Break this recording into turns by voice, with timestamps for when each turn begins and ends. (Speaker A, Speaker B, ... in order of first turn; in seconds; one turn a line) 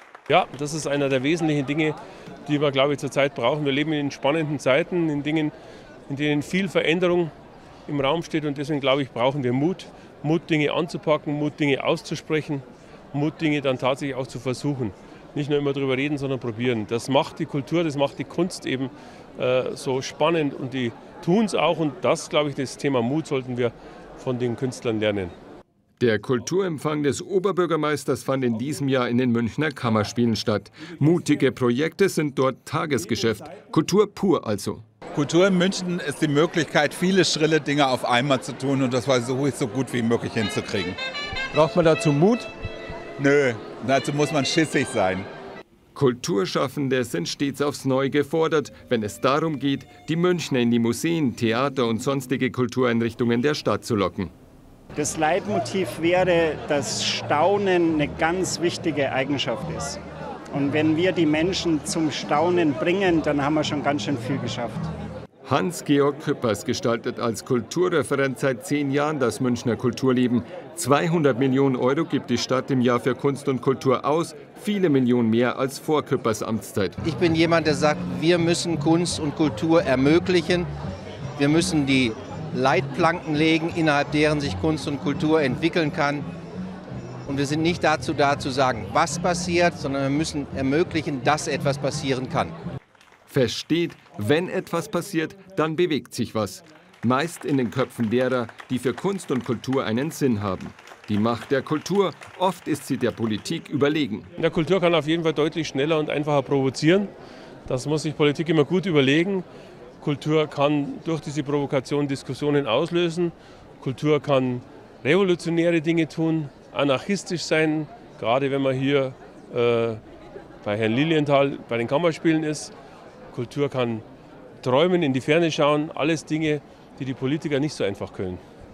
Speaker A: 0.3-5.5
Speaker A: 6.1-7.3
Speaker A: 7.9-25.3
Speaker B: 26.0-34.8
Speaker C: 35.1-41.0
Speaker B: 41.5-42.5
Speaker C: 43.2-45.3
Speaker B: 45.9-54.3
Speaker D: 55.0-60.0
Speaker D: 60.5-64.9
Speaker B: 65.5-77.0
Speaker E: 77.0-80.7
Speaker E: 81.4-86.3
Speaker E: 87.3-92.5
Speaker B: 93.3-104.3
Speaker A: 104.4-107.1
Speaker A: 107.7-109.5
Speaker A: 110.0-120.0
Speaker A: 120.6-122.7
Speaker A: 123.3-124.0
Speaker A: 124.6-128.4